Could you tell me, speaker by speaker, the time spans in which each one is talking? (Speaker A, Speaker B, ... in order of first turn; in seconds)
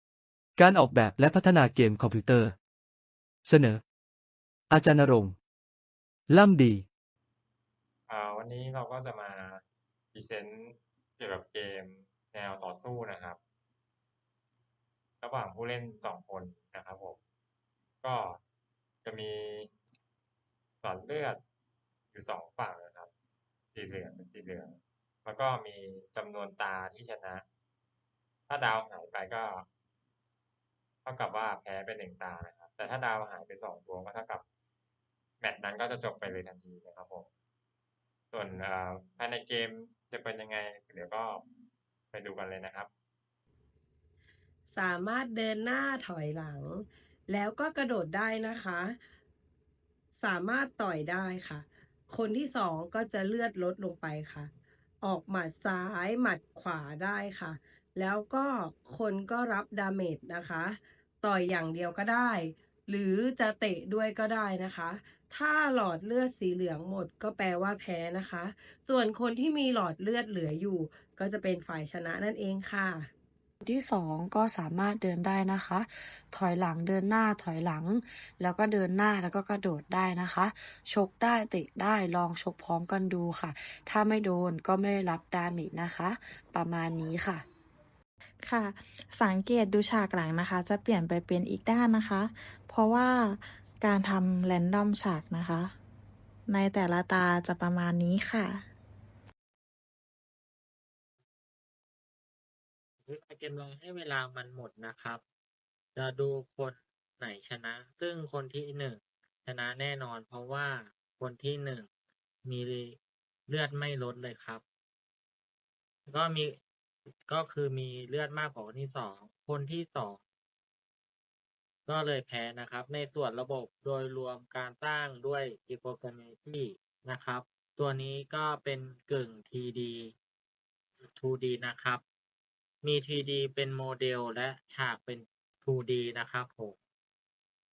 Speaker A: 0.6-2.5, 3.4-3.8, 4.7-5.4, 6.3-6.9
Speaker B: 8.1-9.6, 10.1-13.4, 15.2-17.2, 18.0-18.4, 19.0-19.7, 20.8-21.4, 22.1-23.1, 23.7-27.4, 28.5-29.7, 31.1-34.4, 35.4-37.3, 38.3-41.5, 42.1-42.9
Speaker C: 44.7-48.9, 50.2-54.5, 55.0-73.1
Speaker D: 73.6-87.5
Speaker E: 88.5-95.7, 96.5-98.6
Speaker F: 103.0-105.2, 106.0-111.9, 112.5-114.6, 116.1-116.6, 117.3-120.2, 121.9-130.1, 131.0-132.0, 132.8-136.8